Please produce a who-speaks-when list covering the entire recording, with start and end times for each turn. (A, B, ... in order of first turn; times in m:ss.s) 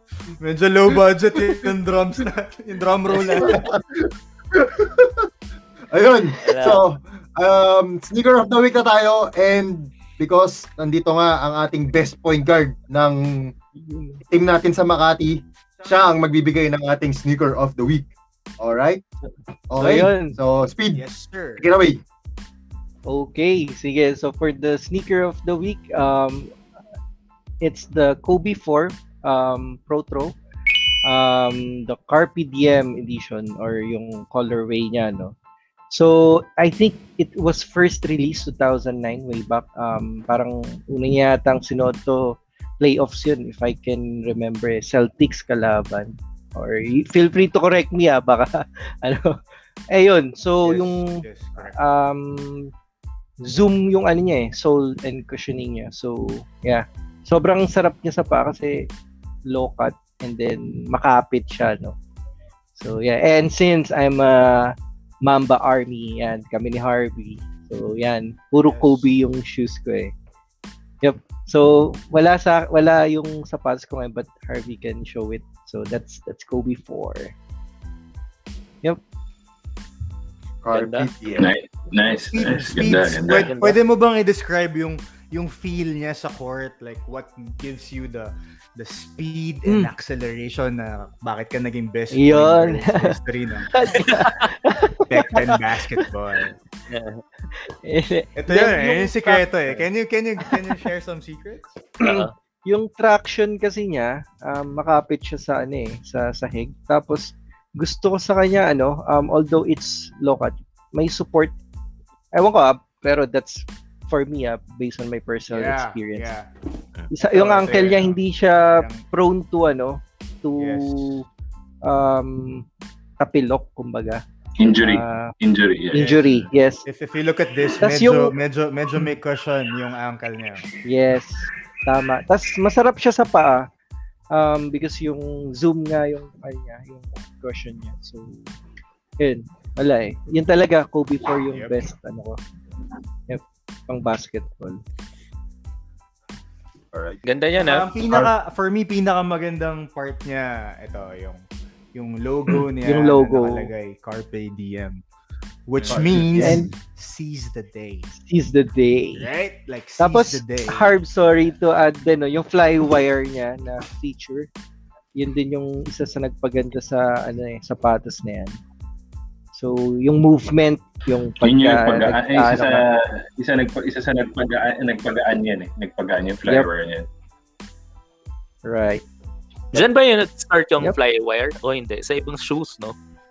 0:00.4-0:03.6 A
0:03.4-0:05.3 B
0:05.9-0:13.5 B
0:06.4-0:06.8 C
0:14.3-0:19.0 B
0:19.7-0:21.0 B
0:19.8-0:20.4 D
0:20.9-0:21.7 A
0:21.6-0:22.0 B
0:23.1-0:26.5 D
0:27.6-0:30.4 D
0:31.0-0:35.3 D
0:35.9-0:49.4 D
0:49.9-0:52.7 D
0:50.6-0:51.8 A
0:53.4-0:58.9 D
0:59.5-1:02.0 D
1:02.8-1:04.7 D
1:05.2-1:10.1 D
1:08.6-1:09.1 A
1:11.0-1:17.3 D
1:20.6-1:21.5 B
1:20.7-1:21.1 C
1:21.4-1:23.5 E
1:22.3-1:33.7 A
1:23.2-1:23.8 C
1:32.1-1:33.2 D
1:33.7-1:35.6 D
1:34.0-1:34.5 C
1:35.1-1:36.5 A
1:36.9-1:37.2 C
1:37.5-1:39.5 D
1:38.4-1:41.7 A
1:42.0-1:51.5 D
1:42.0-1:42.3 C
1:52.3-1:56.3 D
1:55.5-1:56.5 A
1:57.1-2:01.2 D
1:57.3-1:59.0 A
2:00.6-2:01.1 A
2:01.8-2:02.6 D
2:03.2-2:04.2 D
2:04.6-2:06.1 E
2:04.8-2:05.3 D
2:05.9-2:06.8 D
2:06.0-2:06.3 A
2:06.8-2:10.6 A
2:07.8-2:08.3 D
2:10.8-2:13.6 D
2:14.3-2:18.5 D
2:19.2-2:22.4 D
2:21.5-2:21.9 A
2:23.3-2:24.8 D
2:26.9-2:27.2 B
2:27.2-2:27.9 C
2:27.6-2:35.0 A
2:32.8-2:33.7 D
2:35.7-2:38.1 A
2:35.8-2:36.6 B
2:36.3-2:36.7 D
2:38.2-2:39.3 D
2:39.1-2:40.9 A
2:40.0-2:44.5 D
2:45.1-2:48.6 D
2:49.5-2:52.8 D
2:51.4-2:57.1 E
2:58.6-2:59.0 D
2:59.7-3:02.9 C